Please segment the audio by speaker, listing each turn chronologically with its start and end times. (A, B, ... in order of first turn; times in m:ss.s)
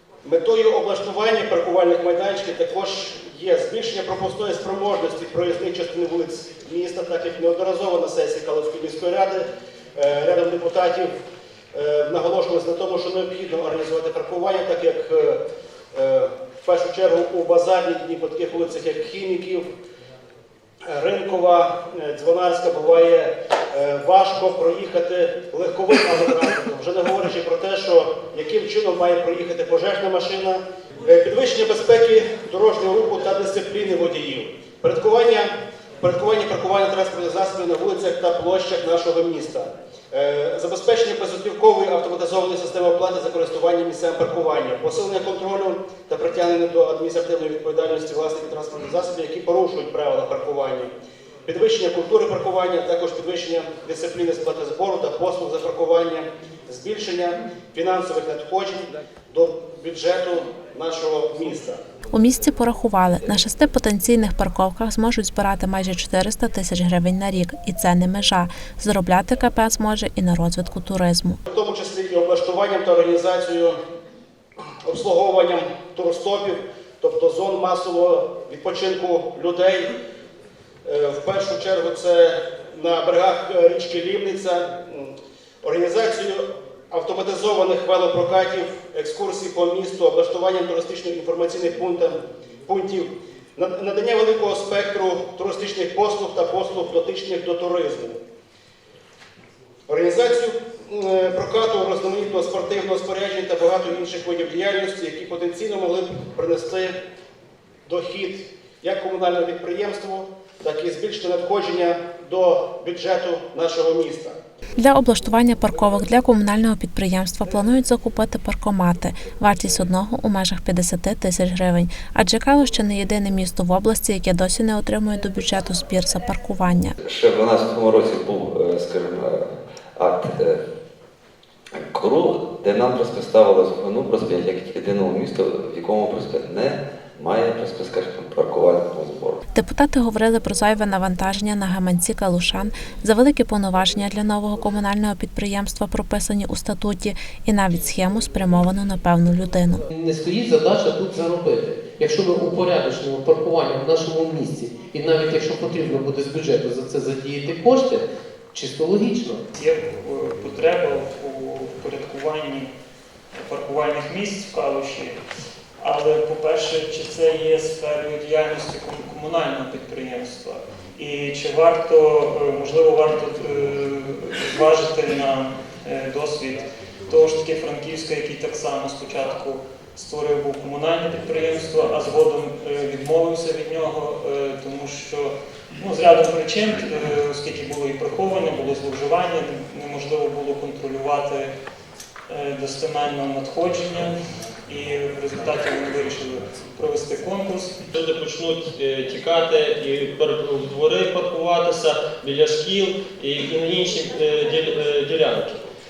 0:00.2-0:11.1 A
0:11.7-0:15.4 A
0:15.9-0:19.7 A
0:20.9-0:50.9 A
0:51.5-1:01.8 A
1:02.1-1:11.4 B
1:11.5-1:13.8 A
1:14.8-1:19.9 A
1:20.8-1:38.2 A
1:39.9-1:47.0 A
1:47.9-1:54.4 A
1:54.8-2:07.0 B
2:07.0-2:10.6 C
2:11.8-2:19.4 C
2:19.5-2:29.8 B
2:29.9-2:39.4 D
2:39.6-2:42.7 E
2:43.3-2:45.2 E
2:45.8-3:11.5 E
3:12.3-3:17.8 E
3:17.9-3:25.6 F